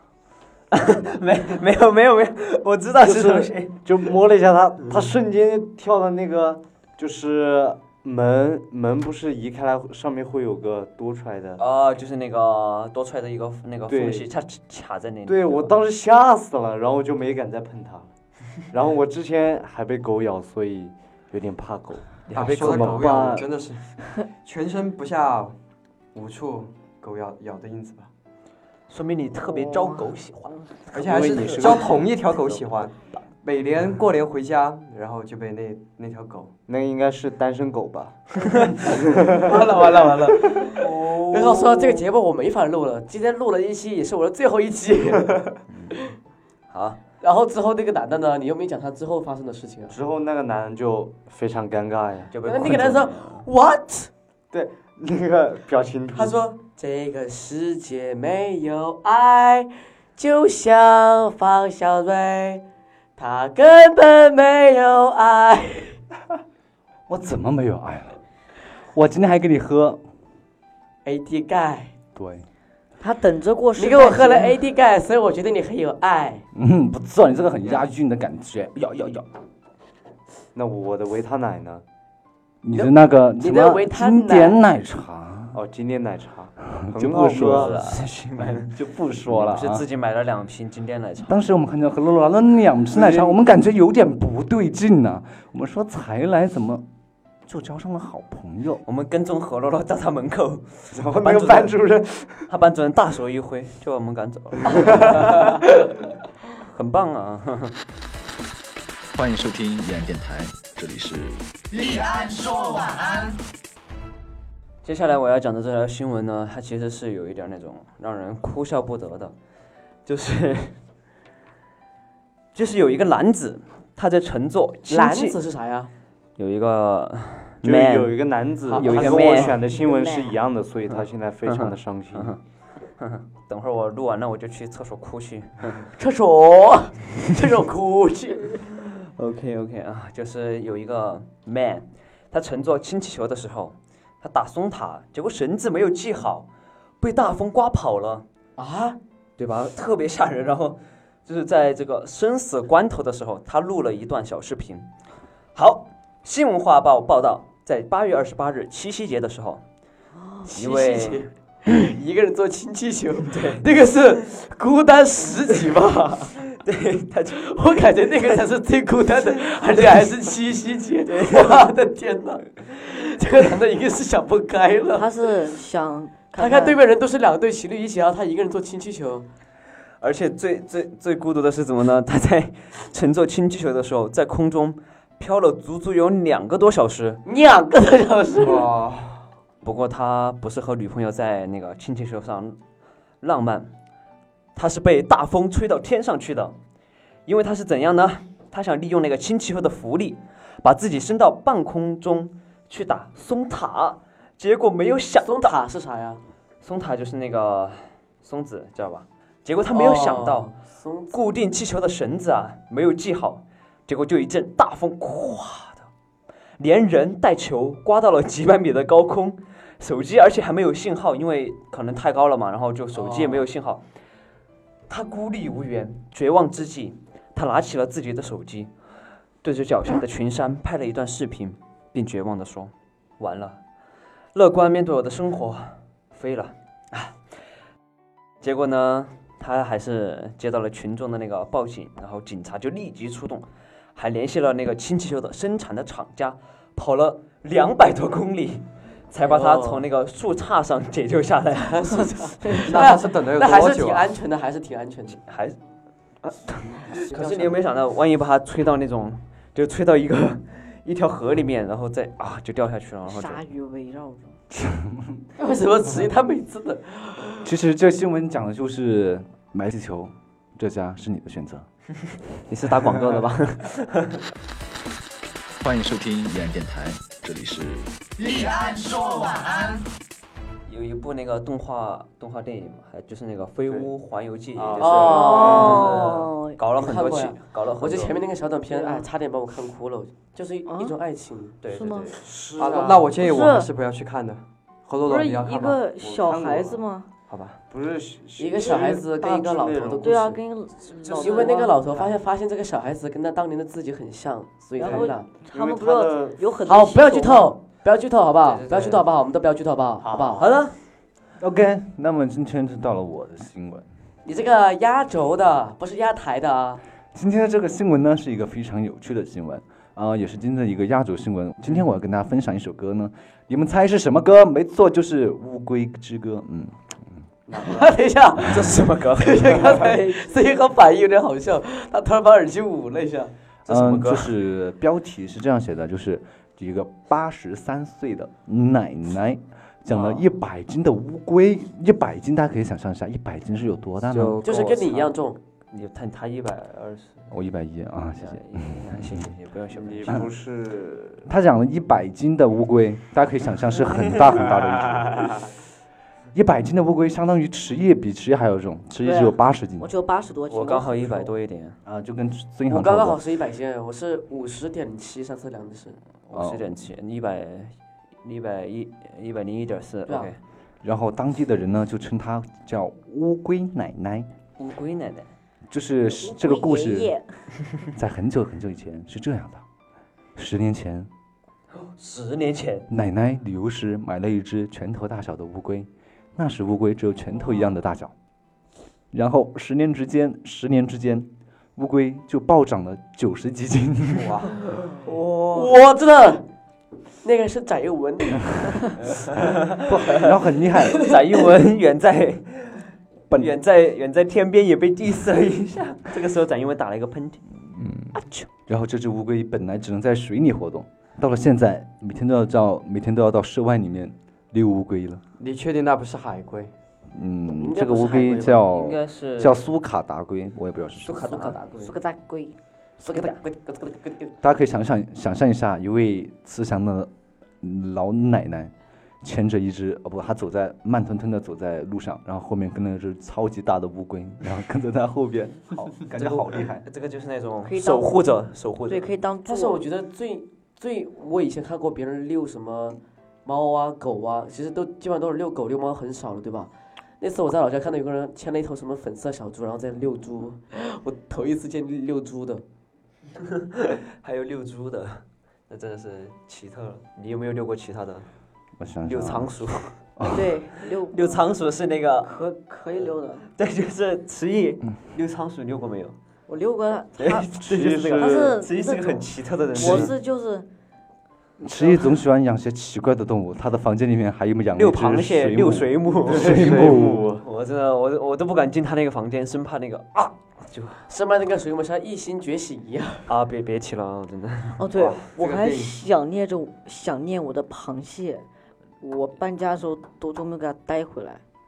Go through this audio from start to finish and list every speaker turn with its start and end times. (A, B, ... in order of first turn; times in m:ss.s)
0:00.7-0:04.1 A
0:03.0-0:11.6 B
0:11.6-0:15.7 A
0:13.9-0:14.3 B
0:15.3-0:18.1 B
0:18.7-0:23.4 B
0:22.3-0:23.1 A
0:22.3-0:23.8 C
0:22.5-0:23.4 D
0:24.4-0:25.6 C
0:26.1-0:28.1 C
0:28.9-0:30.6 A
0:29.6-0:30.0 E
0:30.9-0:36.5 C
0:31.0-0:31.9 D
0:36.7-0:38.2 B
0:38.9-0:39.5 B
0:39.4-0:45.4 F
0:40.7-0:42.0 A
0:46.7-0:47.0 A
0:47.2-0:50.0 F
0:49.9-0:52.3 B
0:52.3-0:53.5 A
0:52.4-0:54.1 F
0:54.5-0:56.4 B
0:56.2-1:02.6 F
1:03.2-1:06.0 F
1:07.1-1:08.2 D
1:08.9-1:10.0 D
1:11.0-1:11.9 F
1:12.2-1:12.5 D
1:13.0-1:14.6 E
1:13.8-1:16.4 F
1:16.6-1:19.3 D
1:20.6-1:21.8 B
1:22.6-1:25.6 D
1:22.7-1:24.6 F
1:25.5-1:27.9 B
1:26.7-1:28.0 D
1:27.3-1:31.4 A
1:28.6-1:29.8 D
1:31.2-1:36.9 D
1:32.9-1:33.4 B
1:37.5-1:38.8 D
1:38.8-1:41.8 A
1:40.9-1:42.4 B
1:42.5-1:45.5 A
1:46.7-1:47.8 A
1:49.1-1:51.4 G
1:54.8-1:59.4 A
2:00.1-2:00.8 A
2:02.5-2:05.4 A
2:04.9-2:05.9 F
2:06.4-2:08.2 A
2:07.6-2:12.4 B
2:08.7-2:09.6 F
2:08.8-2:09.6 A
2:09.8-2:10.4 E
2:11.0-2:12.4 A
2:13.0-2:15.9 A
2:16.0-2:18.7 F
2:18.8-2:26.5 A
2:27.0-2:28.2 A
2:28.6-2:29.0 F
2:29.4-2:34.9 A
2:35.6-2:39.6 A
2:40.2-2:40.5 E
2:40.4-2:46.3 F
2:40.6-2:41.3 A
2:43.3-2:43.7 A
2:46.5-2:47.5 A
2:47.4-2:55.1 F
2:51.1-2:51.7 A
2:54.9-2:56.8 E
2:56.4-2:59.3 F
3:00.0-3:07.2 A
3:07.3-3:08.7 F
3:08.4-3:09.2 C
3:09.6-3:12.6 A
3:13.2-3:13.7 A
3:14.6-3:16.6 A
3:17.3-3:25.6 A
3:25.2-3:26.2 F
3:26.6-3:30.5 A
3:29.7-3:31.2 F
3:31.1-3:35.9 A
3:36.6-3:43.8 A
3:43.0-3:43.4 F
3:44.9-3:48.7 A
3:49.4-3:53.6 A
3:54.3-3:57.1 A
3:58.4-4:12.1 A
4:09.2-4:09.8 F
4:11.7-4:15.2 F
4:12.6-4:14.1 C
4:15.1-4:15.6 A
4:16.2-4:23.4 A
4:17.0-4:17.6 F
4:23.1-4:24.4 E
4:24.5-4:25.1 D
4:25.4-4:27.5 F
4:27.4-4:31.7 D
4:32.5-4:34.2 A
4:35.6-4:37.8 G
4:40.7-4:48.2 A
4:44.6-4:45.9 B
4:44.8-4:46.0 F
4:45.0-4:46.6 E
4:46.8-4:51.6 F
4:48.7-4:49.1 E
4:50.7-4:51.0 E
4:51.6-4:52.2 A
4:51.7-4:52.2 E
4:52.3-4:53.1 B
4:52.6-4:53.0 F
4:52.6-4:55.8 C
4:53.2-4:53.7 E
4:55.0-4:57.1 E
4:56.0-4:56.8 B
4:57.3-4:57.6 C
4:57.7-5:00.2 B
4:58.4-5:00.4 F
5:00.0-5:02.2 E
5:00.9-5:01.6 A
5:01.1-5:05.3 F
5:04.8-5:07.5 E
5:05.0-5:06.4 B
5:06.7-5:10.5 F
5:08.4-5:09.0 A
5:10.0-5:10.5 B
5:10.4-5:10.8 A
5:11.4-5:13.9 D
5:14.2-5:16.8 F
5:17.1-5:27.2 D
5:27.5-5:27.8 B
5:27.6-5:33.3 F
5:28.4-5:29.9 A
5:33.6-5:34.4 A
5:33.7-5:44.4 D
5:44.1-5:45.2 A
5:44.4-5:45.4 F
5:45.7-5:47.3 A
5:47.3-5:49.3 D
5:48.2-5:50.3 A
5:49.7-5:51.3 B
5:51.3-5:55.3 D
5:56.3-5:59.9 D
5:59.0-6:01.3 E
6:00.5-6:01.8 A
6:01.9-6:03.2 D
6:02.7-6:06.0 F
6:06.3-6:10.4 A
6:06.3-6:06.6 D
6:10.1-6:10.3 F
6:10.8-6:14.3 D
6:14.6-6:15.3 A
6:15.7-6:17.2 D
6:16.2-6:17.3 E
6:17.9-6:19.6 D
6:20.4-6:21.1 D
6:21.8-6:22.9 A
6:22.9-6:28.1 D
6:29.1-6:34.3 D
6:35.5-6:36.4 F
6:37.2-6:38.9 F
6:39.2-6:40.3 A
6:39.8-6:41.2 D
6:41.0-6:47.5 A
6:47.6-6:55.2 D
6:55.4-6:56.7 C
6:57.1-7:01.4 D
6:57.6-6:58.6 F
6:58.7-6:59.6 A
7:01.1-7:01.8 A
7:01.4-7:01.9 F
7:01.8-7:02.6 E
7:03.0-7:04.3 F
7:03.1-7:03.4 A
7:04.4-7:07.1 D
7:07.6-7:16.8 D
7:15.8-7:19.1 A
7:17.6-7:19.8 E
7:19.4-7:32.6 F
7:33.7-7:38.3 A
7:38.8-7:39.5 D
7:39.0-7:40.0 A
7:40.2-7:40.5 D
7:40.2-7:41.5 E
7:41.1-7:42.3 A
7:42.2-7:43.4 E
7:43.0-7:46.2 A
7:46.5-7:47.5 E
7:47.2-7:50.1 A
7:47.6-7:48.5 B
7:48.1-7:50.7 E
7:51.6-7:57.2 D
7:54.8-8:01.0 A
7:56.3-7:57.5 B
8:01.1-8:03.3 F
8:03.3-8:05.2 A
8:04.8-8:08.4 E
8:05.4-8:05.9 C
8:09.0-8:11.4 E